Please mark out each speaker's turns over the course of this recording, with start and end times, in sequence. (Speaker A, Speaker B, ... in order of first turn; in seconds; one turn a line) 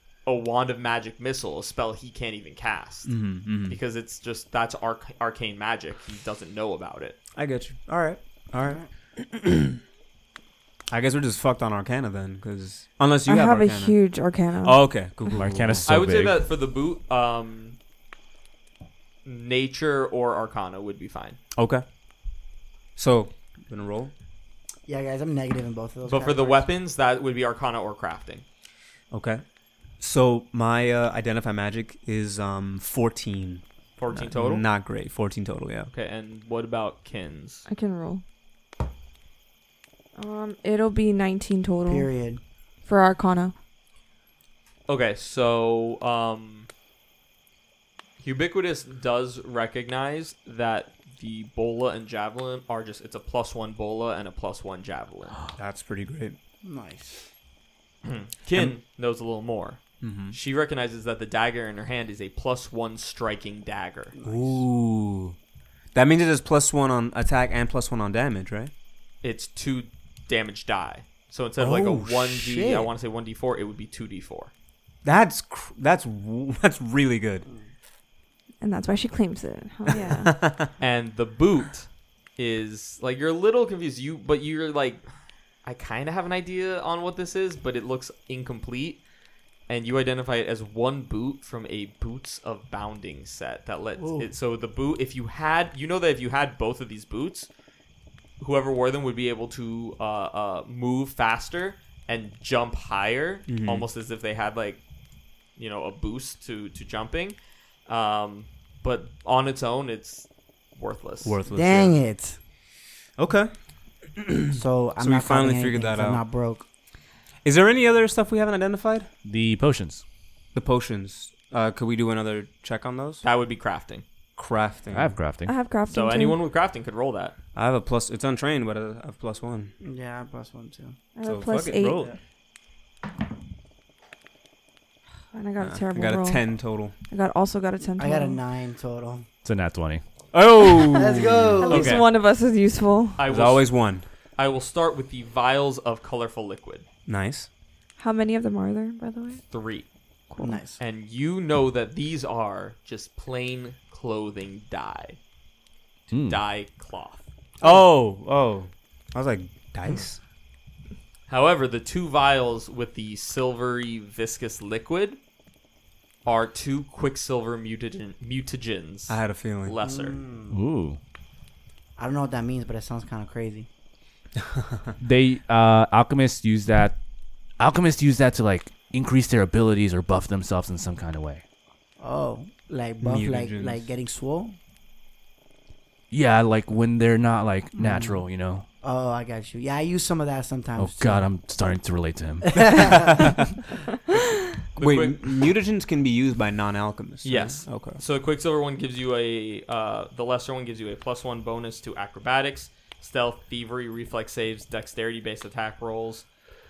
Speaker A: 0.2-7.2
Speaker B: 3.1-3.8
Speaker B: 7.3-9.7
Speaker B: 10.9-14.0
Speaker C: 13.2-14.8
Speaker B: 14.6-15.9
Speaker D: 15.3-16.4
Speaker A: 15.8-17.8
Speaker A: 19.2-21.4
Speaker B: 21.6-21.8
Speaker B: 22.9-24.1
Speaker E: 24.9-26.7
Speaker A: 26.1-28.4
Speaker B: 29.1-29.4
Speaker B: 30.0-35.9
Speaker A: 34.0-34.6
Speaker A: 35.9-37.6
Speaker C: 37.7-38.2
Speaker C: 40.1-42.1
Speaker E: 41.9-42.4
Speaker C: 42.8-43.5
Speaker A: 44.9-46.7
Speaker A: 48.2-55.4
Speaker B: 55.5-56.4
Speaker E: 56.6-57.2
Speaker A: 58.0-64.2
Speaker B: 60.0-60.4
Speaker E: 64.2-64.6
Speaker B: 64.2-65.3
Speaker B: 65.9-68.7
Speaker A: 69.2-74.5
Speaker B: 71.6-72.9
Speaker B: 75.0-77.5
Speaker C: 78.6-80.3
Speaker B: 80.2-80.7
Speaker A: 80.8-85.0
Speaker A: 85.6-89.0
Speaker A: 89.7-97.5
Speaker E: 94.0-94.3
Speaker A: 98.4-104.8
Speaker B: 103.5-103.8
Speaker A: 105.6-111.4
Speaker B: 111.2-111.9
Speaker E: 111.5-112.4
Speaker B: 113.2-113.5
Speaker B: 114.2-116.2
Speaker E: 114.5-116.6
Speaker B: 117.4-119.1
Speaker D: 119.2-120.0
Speaker B: 120.5-123.2
Speaker A: 123.2-124.0
Speaker B: 124.4-125.2
Speaker D: 124.9-125.5
Speaker C: 125.4-126.4
Speaker A: 125.9-127.3
Speaker B: 127.5-129.7
Speaker E: 129.8-130.9
Speaker C: 131.1-132.1
Speaker B: 131.2-132.1
Speaker C: 135.3-138.4
Speaker B: 135.6-136.9
Speaker E: 138.0-139.2
Speaker D: 139.4-140.0
Speaker B: 140.3-141.9
Speaker E: 140.9-142.0
Speaker C: 141.6-143.2
Speaker A: 141.7-142.0
Speaker A: 143.2-143.7
Speaker B: 143.3-144.0
Speaker A: 144.4-146.8
Speaker B: 147.1-147.5
Speaker C: 148.0-149.4
Speaker A: 149.5-149.8
Speaker C: 150.3-150.6
Speaker E: 150.3-150.8
Speaker A: 150.8-155.2
Speaker D: 156.1-156.4
Speaker A: 156.2-157.2
Speaker B: 157.6-160.2
Speaker A: 161.3-165.2
Speaker A: 166.2-170.2
Speaker B: 169.1-169.8
Speaker E: 169.8-170.6
Speaker D: 170.5-171.0
Speaker E: 172.0-173.7
Speaker B: 174.6-174.9
Speaker D: 175.0-177.0
Speaker D: 177.6-181.4
Speaker E: 182.0-184.6
Speaker B: 183.0-183.9
Speaker D: 186.1-188.6
Speaker E: 187.7-188.2
Speaker E: 188.8-191.2
Speaker D: 190.8-193.1
Speaker E: 192.4-193.3
Speaker A: 194.8-195.3
Speaker B: 194.8-198.0
Speaker A: 197.2-206.2